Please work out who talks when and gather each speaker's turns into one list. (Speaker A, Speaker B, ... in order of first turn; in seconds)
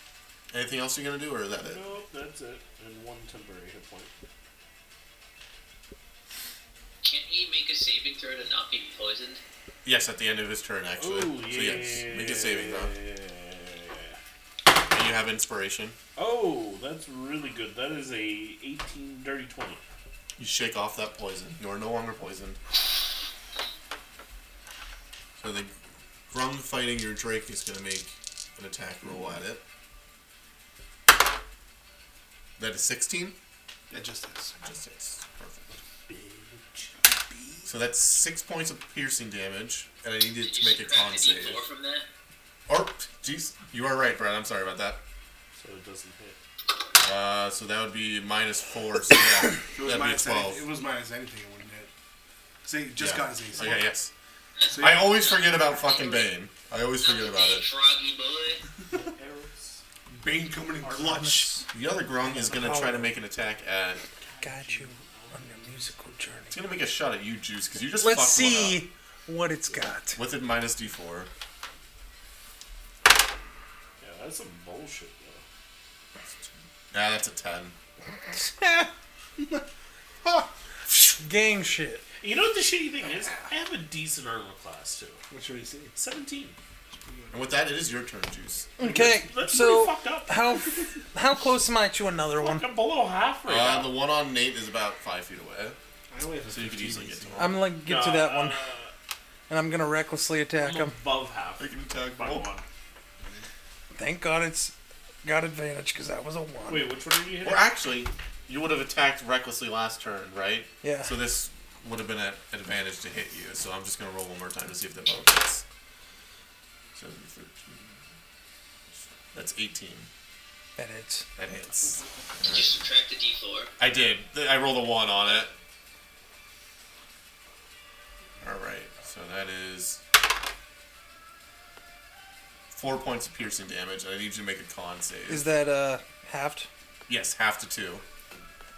Speaker A: 0.5-1.8, 9.8-12.9, 14.9-16.0, 20.4-22.6, 25.4-25.7, 26.3-29.6, 32.6-33.4, 34.6-35.8, 37.7-41.7, 42.7-45.0, 47.0-50.7, 53.0-54.1, 54.8-57.7, 61.7-64.0, 66.5-68.8, 70.2-71.3, 76.9-77.8, 87.3-88.7, 93.5-95.8, 96.5-97.6, 101.6-102.5, 107.4-115.6, 117.0-118.0, 119.3-120.1, 121.4-122.8, 123.8-125.5, 128.4-130.0, 132.7-135.5, 137.1-138.0
Speaker B: 1.6-4.1, 11.0-14.2, 16.2-19.8, 36.1-36.9, 45.6-46.4, 58.9-59.8, 60.8-61.3, 64.2-65.9, 74.0-75.5, 82.2-85.2, 86.0-86.6, 88.8-90.9, 92.4-93.9, 97.8-98.9, 100.6-102.7, 106.7-107.7
Speaker C: 7.0-9.4, 40.5-42.1, 55.2-56.3, 57.0-58.6, 122.5-123.7
Speaker D: 33.9-34.6, 37.0-37.8, 49.7-51.9, 52.6-53.9, 54.7-55.1, 60.1-61.6, 85.3-85.9, 86.9-87.5, 96.1-97.5, 103.2-103.5
Speaker E: 61.0-61.7, 62.2-63.1, 64.4-66.6, 68.0-70.2, 78.3-78.9, 80.9-82.0, 88.8-92.7, 97.4-98.7, 99.5-101.0, 103.9-106.9, 110.8-111.2, 120.8-121.3, 135.3-136.7